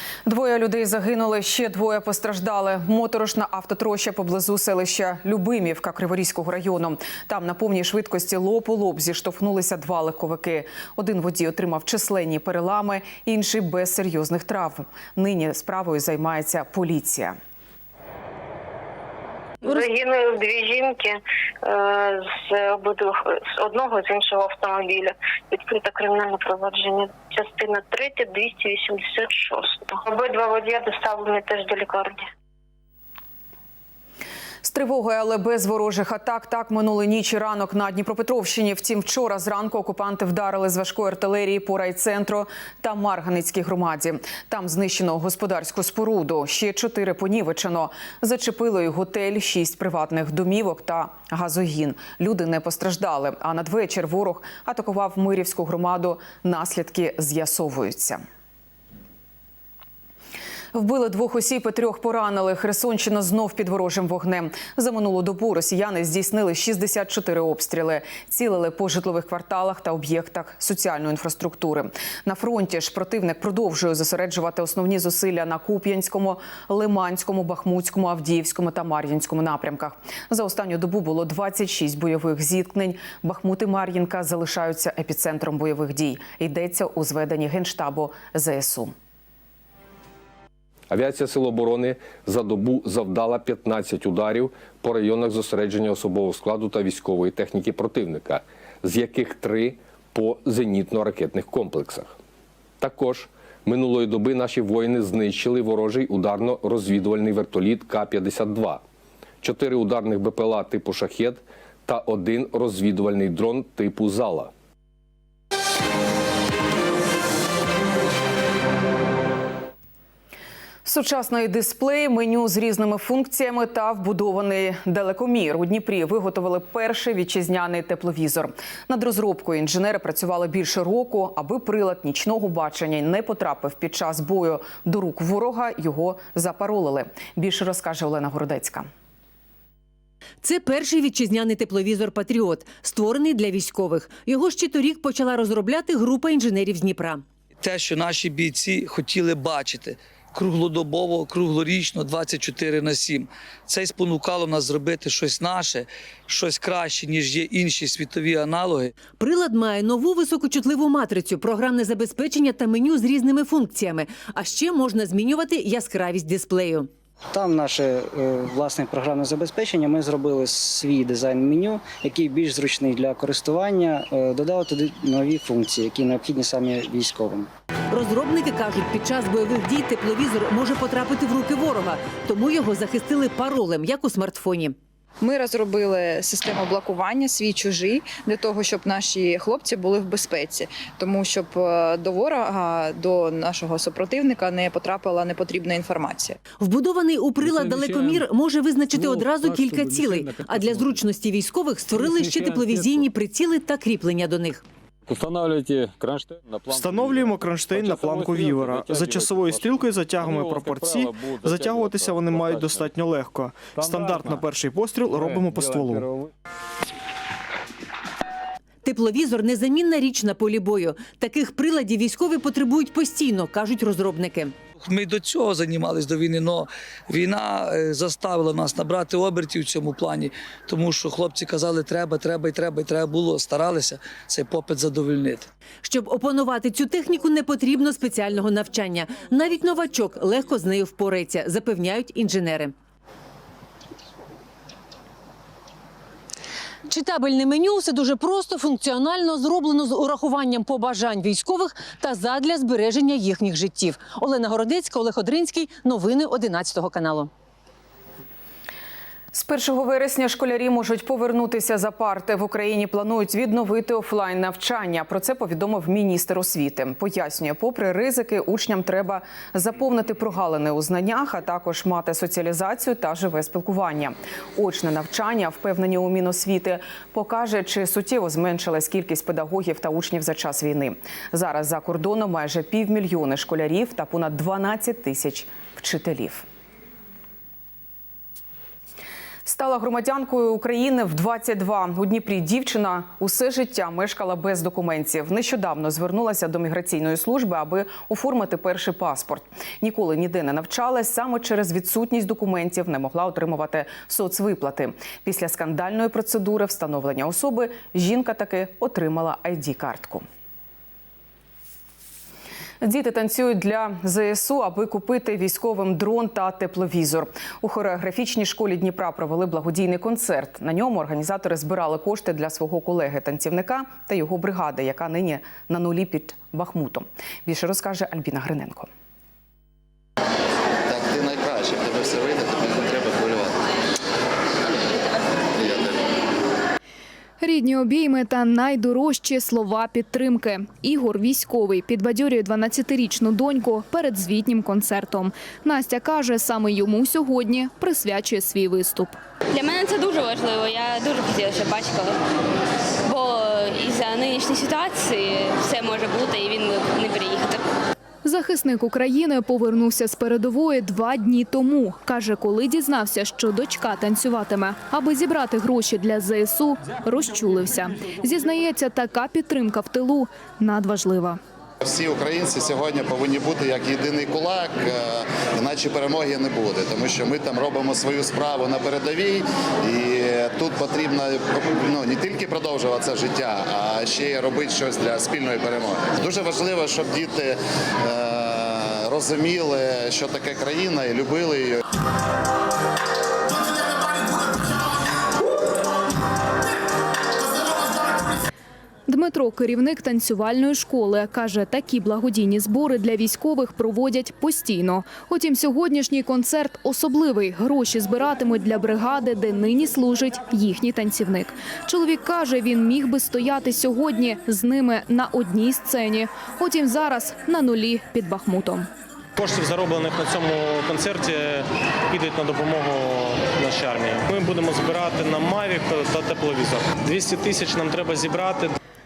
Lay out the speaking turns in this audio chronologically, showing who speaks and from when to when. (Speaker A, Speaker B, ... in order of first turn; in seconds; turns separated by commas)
Speaker A: 0.2-17.4, Speaker B: 19.6-32.2, Speaker A: 34.6-58.2, Speaker A: 60.7-88.9, Speaker C: 90.9-102.1, Speaker C: 102.8-108.8, Speaker C: 109.4-114.5, Speaker A: 120.8-138.9, Speaker D: 140.4-147.2, Speaker E: 147.6-158.9, Speaker D: 159.1-166.9, Speaker F: 167.3-177.5, Speaker D: 177.9-184.7, Speaker G: 185.2-196.4, Speaker D: 196.6-204.6, Speaker E: 197.4-198.2, Speaker E: 198.9-200.9, Speaker E: 202.0-203.0, Speaker E: 205.1-212.9, Speaker H: 206.7-216.1, Speaker E: 213.8-214.4, Speaker E: 215.1-216.3, Speaker D: 218.8-224.5, Speaker E: 224.8-235.5, Speaker D: 235.8-242.7, Speaker D: 246.9-257.3, Speaker A: 259.3-286.4, Speaker A: 289.4-310.2, Speaker A: 312.8-328.9, Speaker I: 330.9-333.6, Speaker I: 335.6-336.1, Speaker J: 337.4-349.1, Speaker K: 349.5-352.2, Speaker K: 353.1-357.6, Speaker J: 358.2-371.4, Speaker I: 371.8-391.8, Speaker J: 399.1-418.9, Speaker L: 419.4-428.7